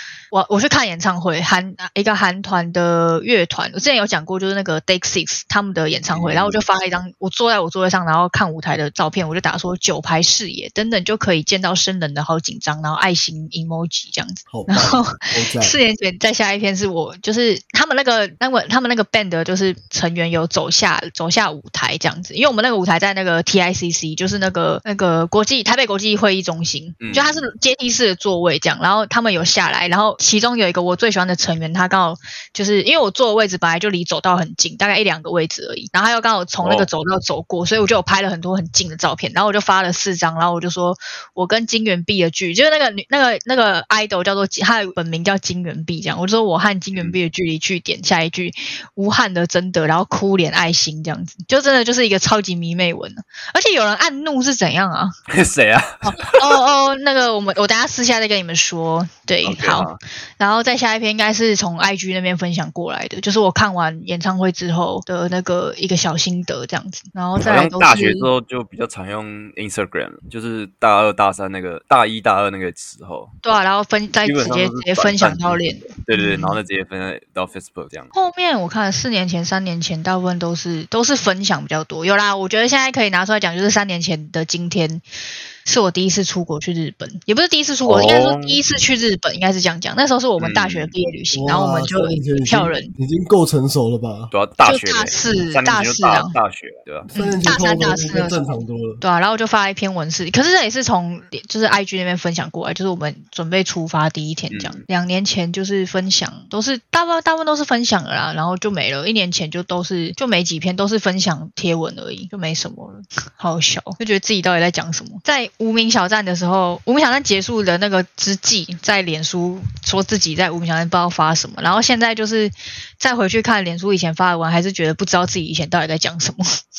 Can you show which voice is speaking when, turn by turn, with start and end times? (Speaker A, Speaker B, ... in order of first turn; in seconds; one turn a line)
Speaker A: 0.3-55.1
Speaker B: 6.1-6.6
Speaker C: 14.5-15.7
Speaker B: 27.0-27.4
Speaker B: 36.6-36.9
Speaker B: 55.3-56.4
Speaker A: 56.0-68.3
Speaker B: 59.4-60.0
Speaker B: 67.4-73.3
Speaker A: 73.4-76.6
Speaker B: 74.2-78.1
Speaker A: 78.1-85.0
Speaker A: 85.7-92.9
Speaker B: 87.8-88.6
Speaker B: 90.4-90.9
Speaker C: 91.3-94.3
Speaker B: 94.3-97.1
Speaker A: 94.6-96.3
Speaker C: 97.1-99.0
Speaker A: 97.1-126.4
Speaker B: 104.5-104.8